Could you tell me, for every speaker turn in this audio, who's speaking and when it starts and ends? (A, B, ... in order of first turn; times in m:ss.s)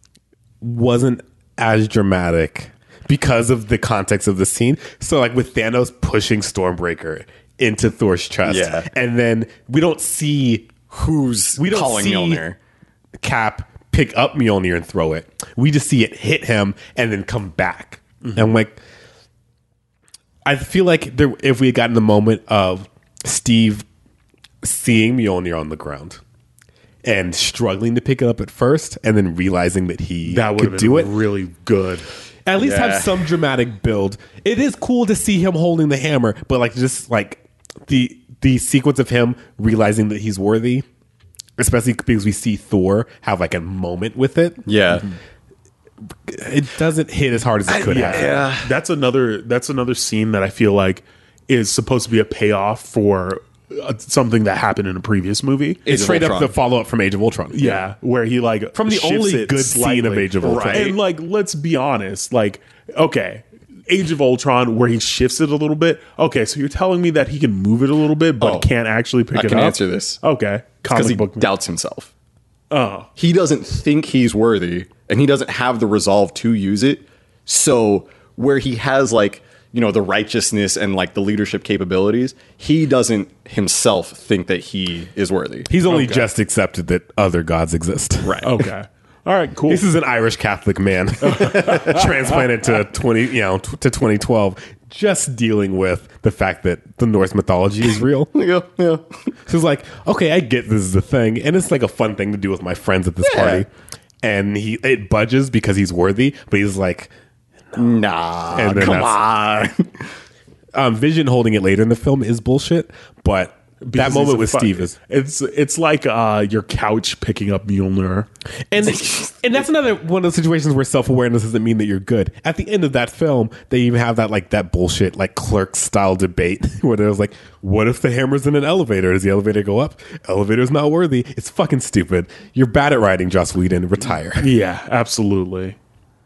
0:00.6-0:10.8 A
0:08.5-0:08.9 B
0:10.9-0:12.6 B
0:11.6-0:12.4 A
0:13.2-0:18.8 A
0:20.4-0:23.8 A
0:24.6-0:26.2 A
0:27.0-0:31.1 A
0:30.3-0:32.1 C
0:32.5-0:40.9 A
0:32.6-0:33.2 B
0:41.6-0:44.7 A
0:44.7-0:45.1 B
0:46.3-0:48.4 A
0:47.7-0:48.7 B
0:47.9-0:55.9 C
0:55.9-0:56.6 B
0:55.9-0:57.7 A
0:57.5-1:11.5 C
0:58.7-1:00.9 A
1:00.4-1:01.0 B
1:08.4-1:08.7 B
1:09.3-1:10.2 B
1:10.9-1:12.1 B
1:12.7-1:13.1 C
1:13.2-1:25.7 B
1:25.7-1:28.5 A
1:25.9-1:26.3 C
1:28.2-1:28.5 B
1:28.4-1:29.8 C
1:29.7-1:38.3 A
1:31.3-1:32.0 C
1:38.3-1:39.3 B
1:39.5-1:43.7 A
1:43.2-1:43.6 B
1:44.2-1:47.1 A
1:47.8-1:49.9 B
1:48.5-1:49.2 A
1:50.7-1:54.9 A
1:53.8-1:58.3 C
1:58.7-2:14.5 A
2:14.4-2:15.8 C